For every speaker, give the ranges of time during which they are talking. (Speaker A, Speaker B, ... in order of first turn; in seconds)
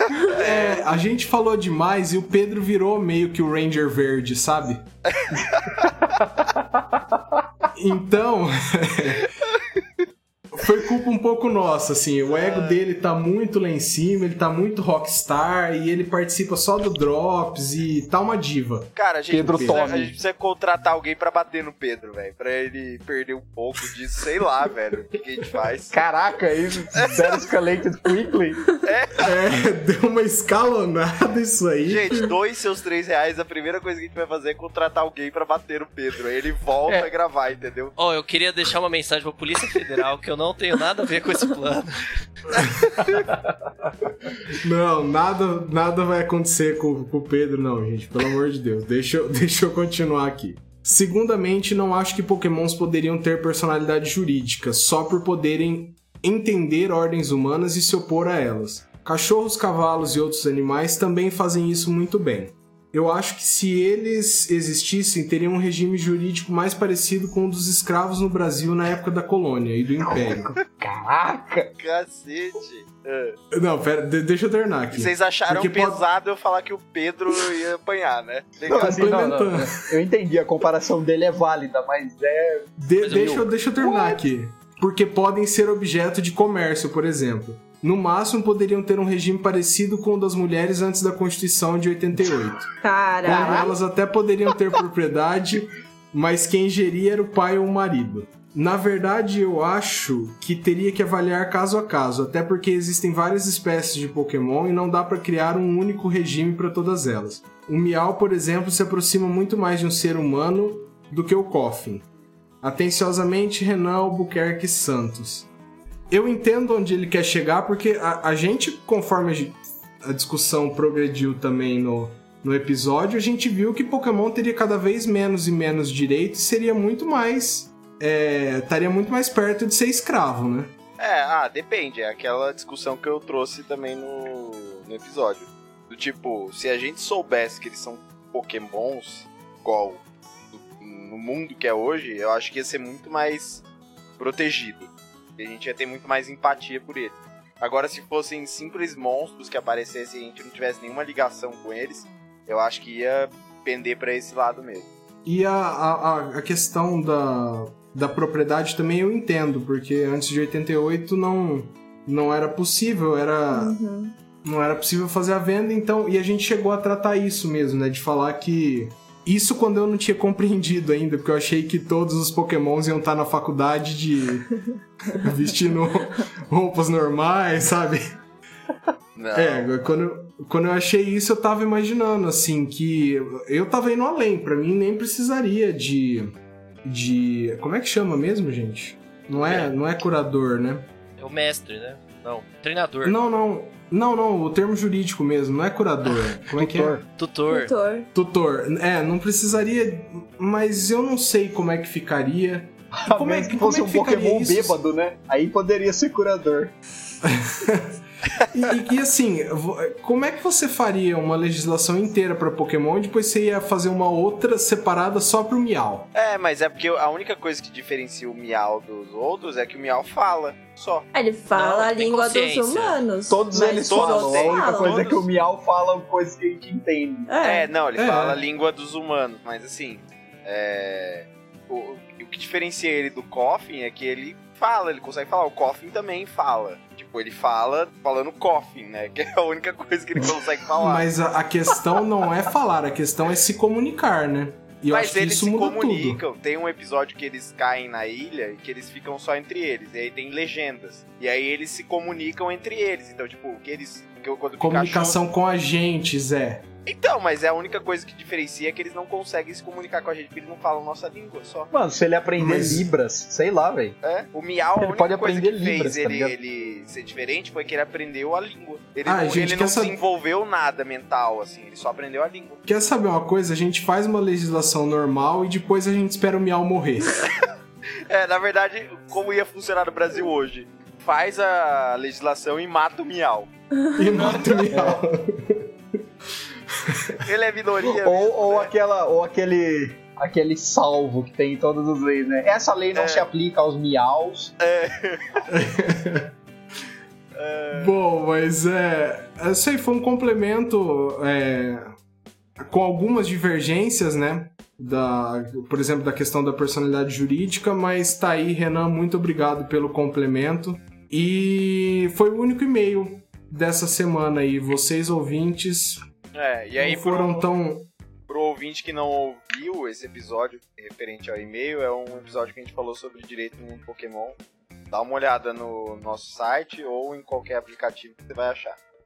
Speaker A: 0.2-0.9, 5.1-5.8, 12.3-12.8, 19.0-26.0, 28.8-29.3, 31.9-37.9, 71.8-73.4, 74.9-79.0, 131.0-140.0, 140.5-143.6, 144.2-154.9, 179.2-179.8, 216.1-221.1, 223.8-225.2, 227.4-241.1, 244.9-255.2, 256.9-261.7, 264.0-272.6, 278.1-283.5, 287.2-288.7, 292.9-293.3, 294.6-295.5, 297.4-297.9, 316.3-317.5, 318.3-324.4, 324.9-328.8
Speaker B: 0.3-4.8, 7.7-9.3, 10.5-19.9, 29.2-32.3, 44.6-70.6, 73.5-76.0, 78.7-79.7, 82.8-92.7, 93.2-112.0, 112.6-115.5, 116.1-130.8, 155.2-163.8, 164.4-178.1, 179.3-186.3, 186.8-190.9, 193.0-197.0, 198.1-204.8, 207.2-208.0, 208.5-216.1, 228.0-228.4, 240.8-246.2, 254.6-256.7, 262.4-262.9, 269.1-270.0, 272.7-277.2, 283.9-285.7, 286.7-287.3, 295.5-296.3, 297.7-301.9, 302.6-316.0, 316.8-317.9
Speaker C: 19.3-20.1, 25.9-28.6, 70.0-71.7, 78.7-83.5, 93.3-93.5, 196.5-197.0, 202.9-206.7, 223.3-227.3, 261.7-264.0, 264.8-266.3, 284.7-285.0, 288.0-294.5
Speaker D: 38.0-42.6, 189.3-189.7, 191.2-193.2, 197.2-197.7, 221.5-223.0
Speaker E: 92.8-93.7, 163.5-164.2, 197.5-198.1, 221.1-225.1, 227.3-227.7